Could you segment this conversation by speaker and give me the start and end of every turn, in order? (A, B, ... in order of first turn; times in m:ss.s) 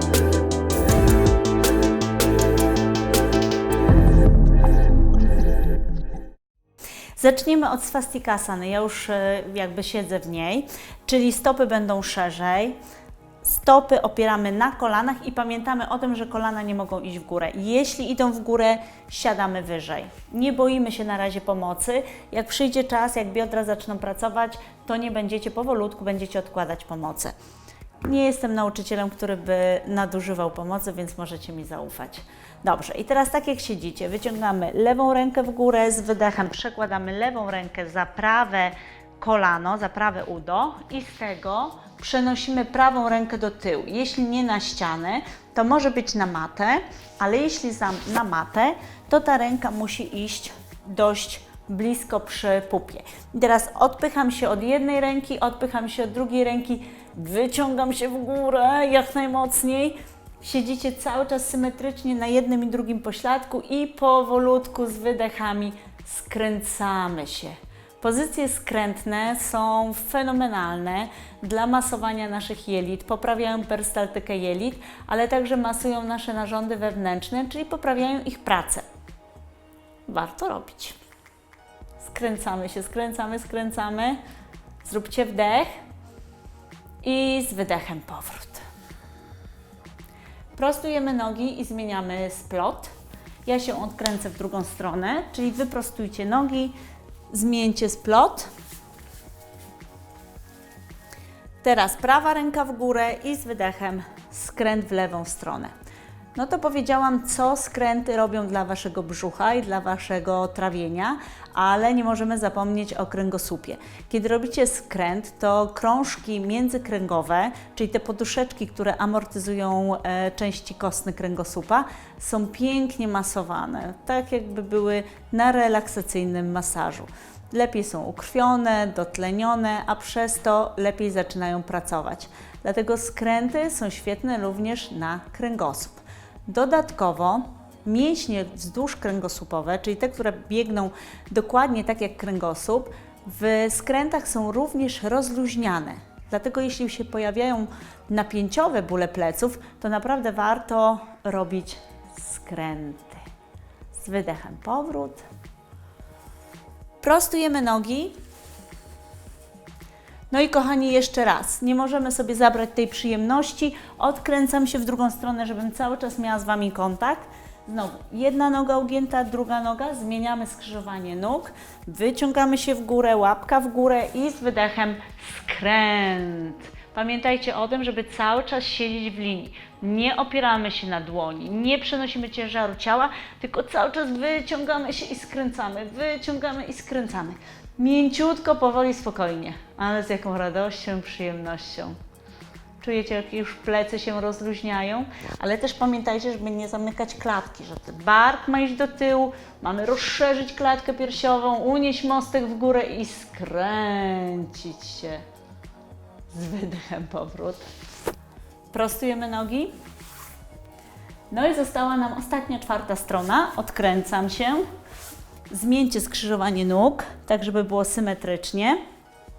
0:07.2-0:12.8 A
0:13.4-0:27.4 A
0:28.0-1:18.8 A
1:20.1-1:21.0 A
1:22.0-1:24.2 A
1:24.8-1:25.7 A
1:27.0-1:28.6 A
1:30.6-1:32.9 A
1:33.4-1:36.8 A
1:37.3-1:38.5 A
1:41.6-1:45.7 A
1:46.4-2:33.2 A
2:33.9-2:35.2 A
2:37.0-2:38.2 A
2:40.3-3:12.0 A
3:12.8-3:25.2 A
3:26.3-3:27.7 A
3:28.7-3:29.7 A
3:31.3-3:34.6 A
3:35.5-3:38.8 A